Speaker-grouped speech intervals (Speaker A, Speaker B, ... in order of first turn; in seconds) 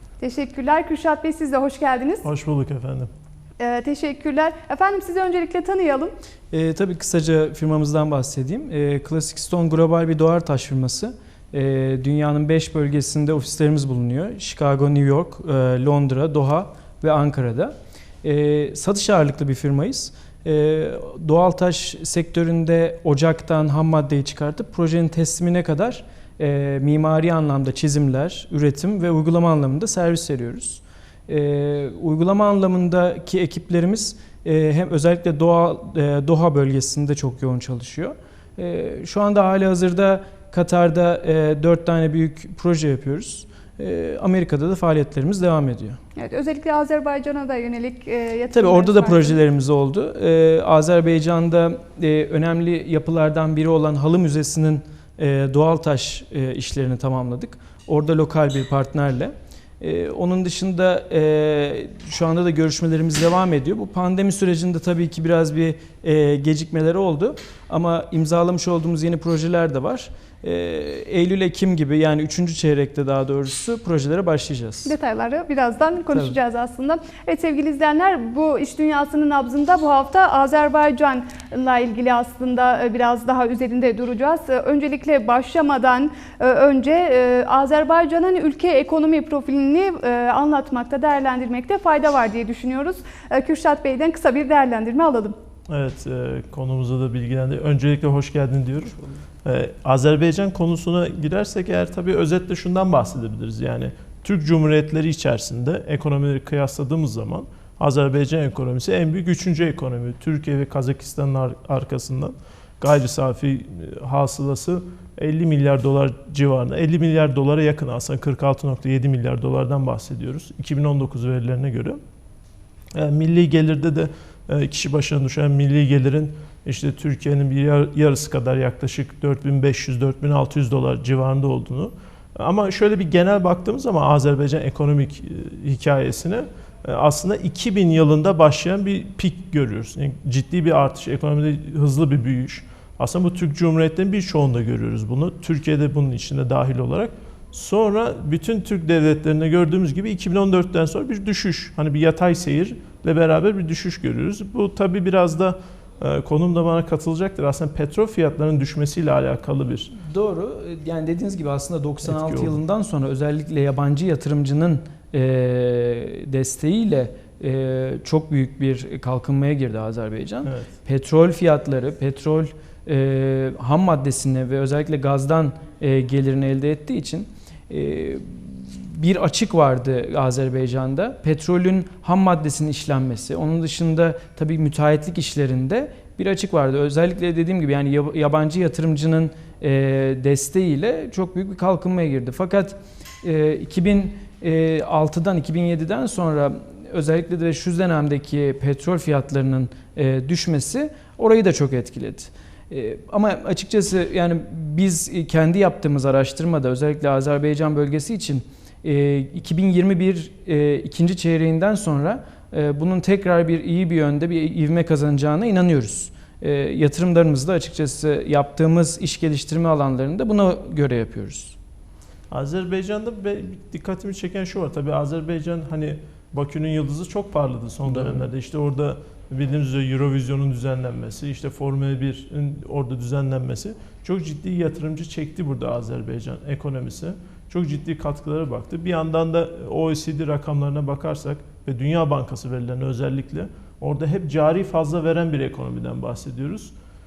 Speaker A: 0.2-2.2, 3.6-6.1, 46.2-49.4, 74.9-95.3
Speaker B: 2.2-3.1, 95.7-122.0, 122.9-159.9, 162.0-162.6, 170.4-170.7, 222.3-246.7
Speaker C: 6.5-46.0, 48.5-75.0, 160.0-221.6, 227.9-228.2